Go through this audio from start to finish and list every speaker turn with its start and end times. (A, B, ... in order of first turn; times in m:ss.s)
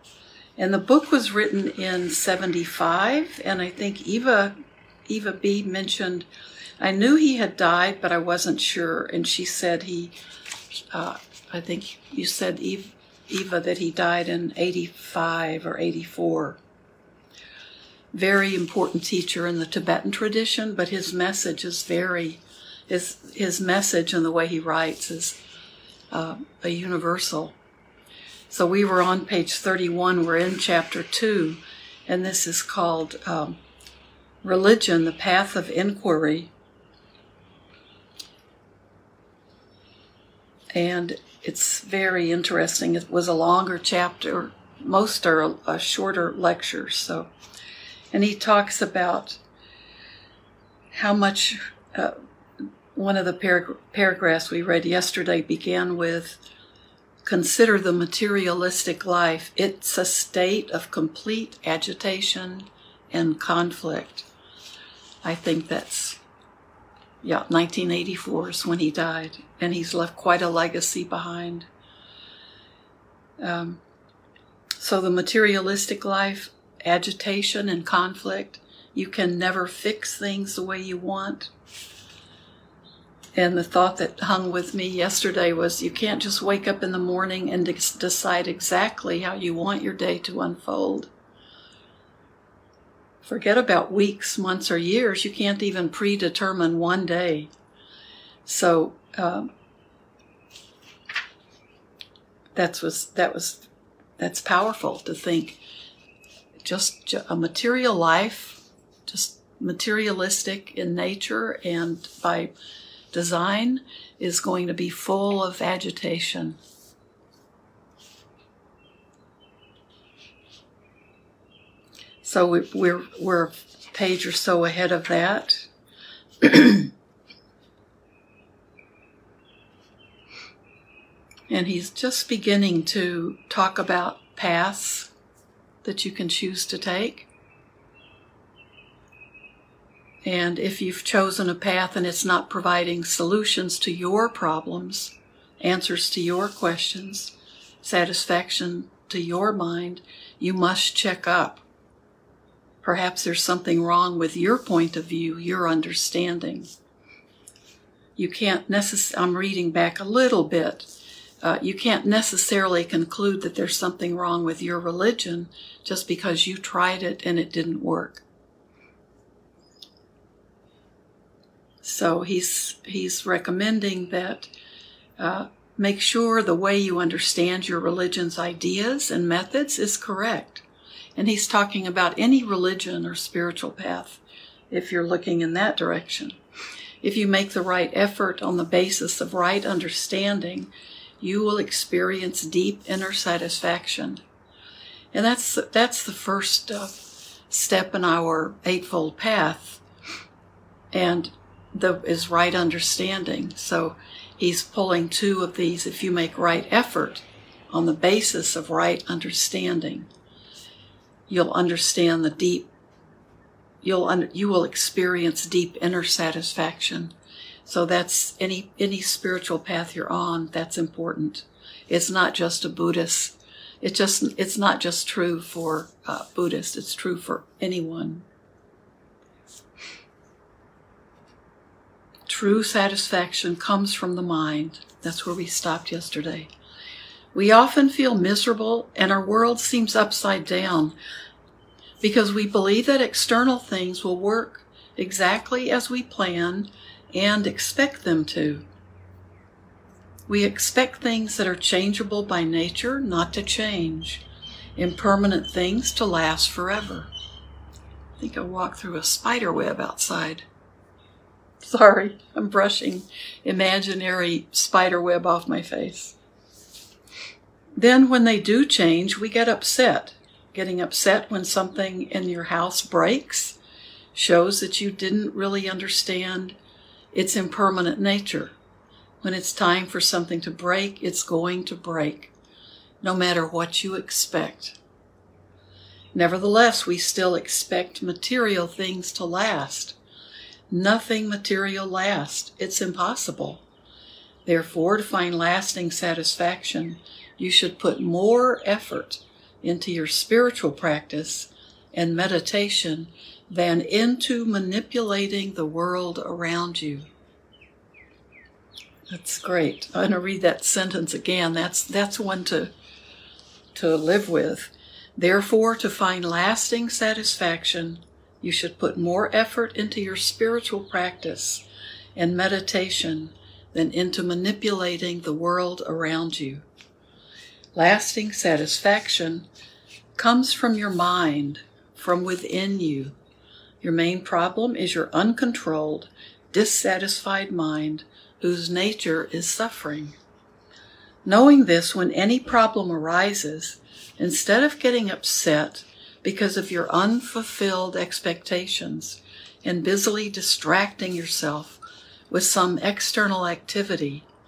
0:00.6-0:04.5 A
0:05.1-0:06.3 A
0:06.8-0:10.1 A
0:10.8-0:16.6 A
0:18.1-0:25.4 A
0:26.1-0:27.6 A
0:28.5-0:33.6 A
0:34.4-0:36.5 A
0:40.7-0:47.3 A
0:48.1-0:49.4 A
0:50.9-0:52.1 A
0:52.9-0:56.4 A
0:57.2-1:04.3 A
1:05.2-1:06.2 A
1:07.2-1:11.7 A
1:13.4-1:13.8 A
1:14.8-1:21.5 A
1:23.4-1:31.1 A
1:33.2-1:37.5 A
1:38.4-1:39.5 A
1:42.6-1:43.7 A
1:44.2-1:45.6 A
1:46.6-1:52.5 A
1:53.1-1:56.6 A
2:02.2-2:05.7 A
2:06.4-2:06.9 A
2:11.5-2:15.1 A
2:15.8-2:17.3 A
2:20.2-2:31.6 A
2:32.8-2:36.7 A
2:38.2-2:40.9 A
2:41.4-2:48.2 A
2:51.8-2:54.5 A
2:55.2-3:00.6 A
3:01.2-3:06.4 A
3:07.0-3:14.2 A
3:15.1-3:19.8 A
3:20.9-3:30.1 A
3:31.3-3:32.7 A
3:33.8-3:37.1 A
3:37.6-3:48.2 A
3:52.3-3:56.5 A
3:57.3-4:01.0 A
4:02.0-4:08.6 A
4:10.3-4:14.2 A
4:14.8-4:17.1 A
4:18.2-4:20.4 A
4:21.6-4:26.2 A
4:27.8-4:33.6 A
4:34.1-4:36.6 A
4:37.1-4:38.6 A
4:39.2-4:42.3 A
4:43.0-4:44.8 A
4:46.1-4:50.0 A
4:50.7-4:53.6 A
4:54.4-5:07.1 A
5:09.1-5:12.7 A
5:13.7-5:21.6 A
5:22.2-5:26.6 A
5:27.8-5:29.5 A
5:30.1-5:33.2 A
5:33.8-5:40.2 A
5:41.2-5:54.3 A